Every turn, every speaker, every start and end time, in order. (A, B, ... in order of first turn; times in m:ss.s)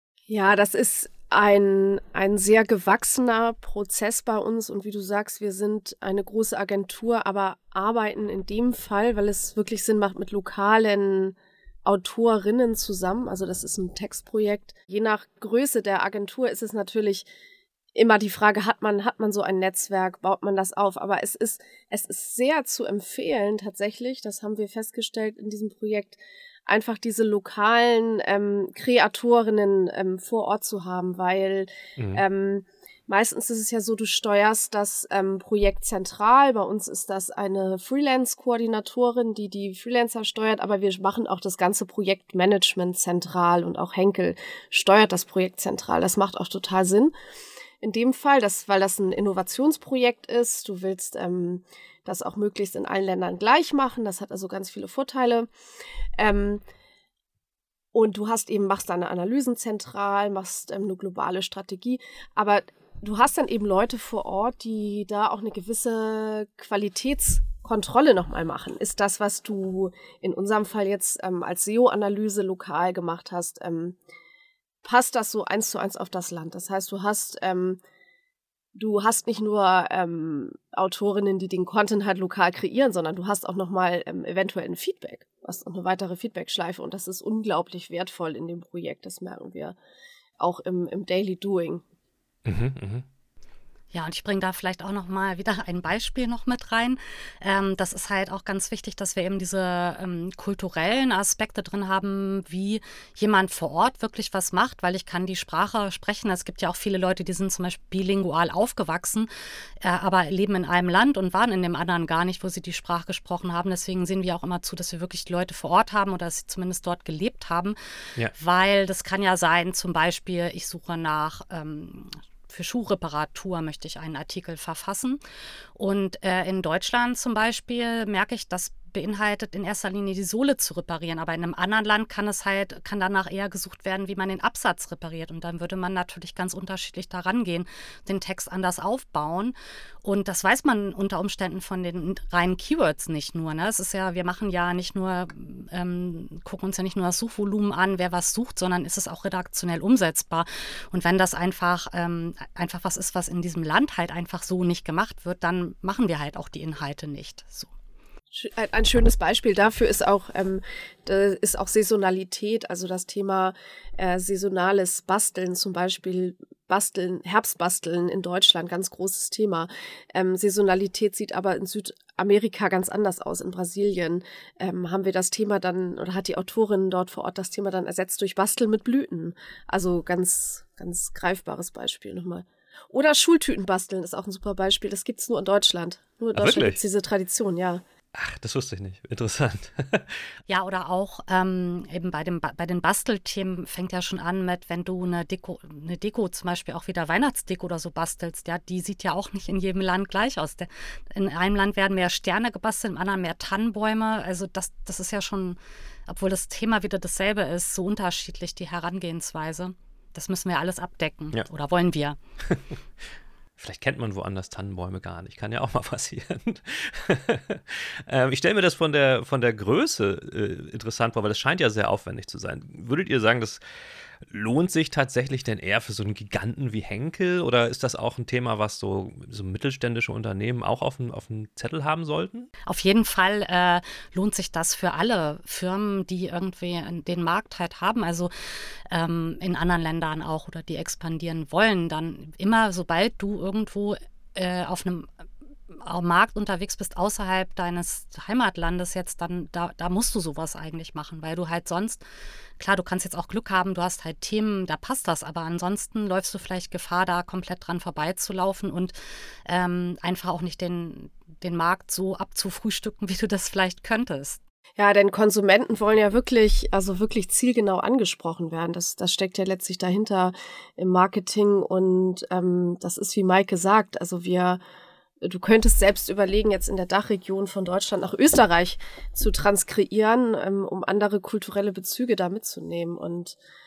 0:00.3-0:17.3 A
0:17.9-0:47.1 A
0:32.0-0:32.2 B
0:47.8-0:55.5 A
0:56.2-0:56.6 A
0:57.9-1:14.0 A
1:14.8-1:17.8 A
1:18.8-1:29.8 A
1:30.4-1:31.8 A
1:32.5-1:33.0 B
1:33.9-1:49.3 C
1:49.8-1:57.8 C
1:58.3-2:05.2 C
2:05.8-2:37.7 C
2:38.3-3:07.8 A
3:06.4-3:06.8 B
3:08.1-3:10.2 B
3:10.5-3:32.2 C
3:33.6-3:43.6 B
3:44.2-3:52.5 B
3:52.6-3:58.3 C
3:58.9-4:05.1 C
4:05.7-4:12.0 C
4:12.6-4:18.9 C
4:19.5-4:24.4 C
4:24.8-4:34.6 A
4:35.2-4:43.4 A